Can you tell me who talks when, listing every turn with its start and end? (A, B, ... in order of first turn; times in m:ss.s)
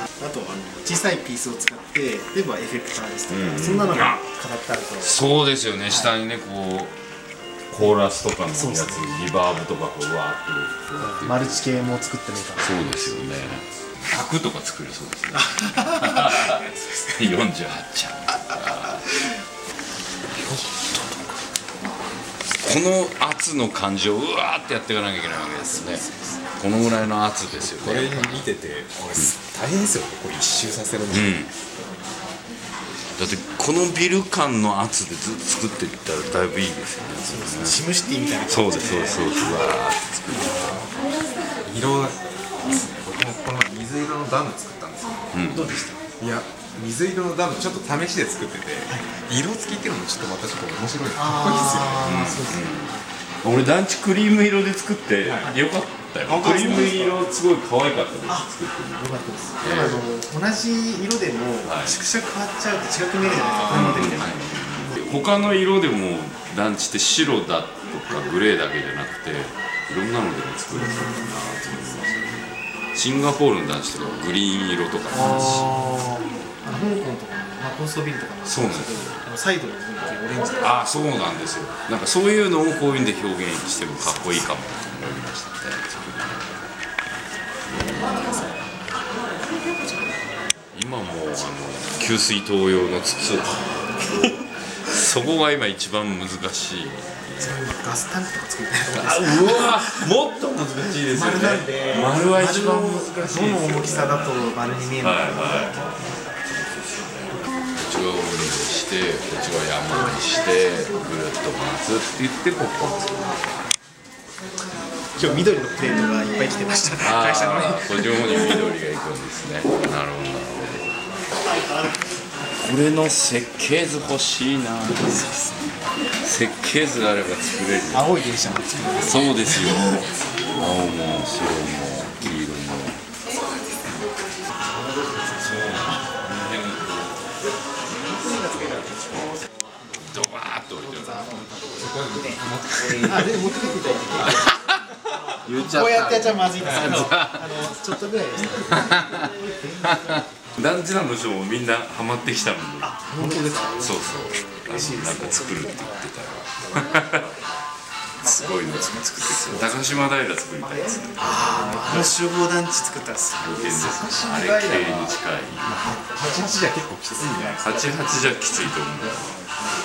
0:00.2-0:05.2 A
0:03.3-0:04.2 B
0:05.0-0:07.0 B
0:05.9-0:06.2 A
0:07.7-0:11.6 B
0:07.8-0:09.1 A
0:11.0-0:13.1 A
0:12.6-0:19.1 B
0:15.3-0:17.1 A
0:20.4-0:21.1 B
0:22.6-0:26.0 B
0:25.4-0:26.2 A
0:26.6-0:28.5 B
0:27.6-0:31.3 C
0:29.0-0:29.3 B
0:31.1-0:31.5 B
0:33.2-0:37.8 B
0:37.3-0:39.7 A
0:38.5-0:40.9 B
0:40.3-0:40.9 C
0:41.6-0:45.2 C
0:45.3-0:45.8 B
0:45.5-0:46.0 A
0:46.2-0:52.4 C
0:51.2-0:52.9 A
0:52.0-1:00.1 B
0:55.2-0:55.6 C
0:56.2-0:57.1 C
0:56.4-0:57.1 A
0:58.3-1:04.4 A
1:01.6-1:02.0 B
1:03.3-1:15.8 B
1:10.7-1:11.2 A
1:15.1-1:20.8 A
1:18.4-1:19.2 B
1:20.5-1:26.7 B
1:27.7-1:28.5 B
1:30.7-1:37.6 B
1:37.4-1:40.1 A
1:38.9-1:53.6 B
1:41.1-1:46.0 A
1:49.9-1:50.3 A
1:55.2-1:58.6 A
1:57.0-2:01.0 B
2:01.4-2:02.3 A
2:02.6-2:05.2 B
2:05.0-2:05.8 A
2:06.2-2:08.2 B
2:07.9-2:10.2 A
2:08.9-2:13.0 B
2:14.7-2:15.2 A
2:15.4-2:17.2 B
2:18.0-2:20.0 A
2:18.2-2:19.3 B
2:20.0-2:21.6 B
2:20.8-2:21.9 A
2:21.8-2:24.5 C
2:22.8-2:23.3 B
2:23.1-2:24.4 A
2:24.2-2:24.9 B
2:25.3-2:30.3 A
2:25.4-2:27.6 B
2:28.7-2:29.2 B
2:30.0-2:33.0 B
2:32.8-2:37.2 A
2:33.1-2:33.8 C
2:33.7-2:37.3 B
2:38.2-2:42.1 B
2:38.2-2:40.1 A
2:40.7-2:44.2 A
2:43.4-2:45.8 B
2:43.8-2:47.7 C
2:45.9-2:46.3 A
2:47.6-2:49.4 B
2:47.7-2:48.2 A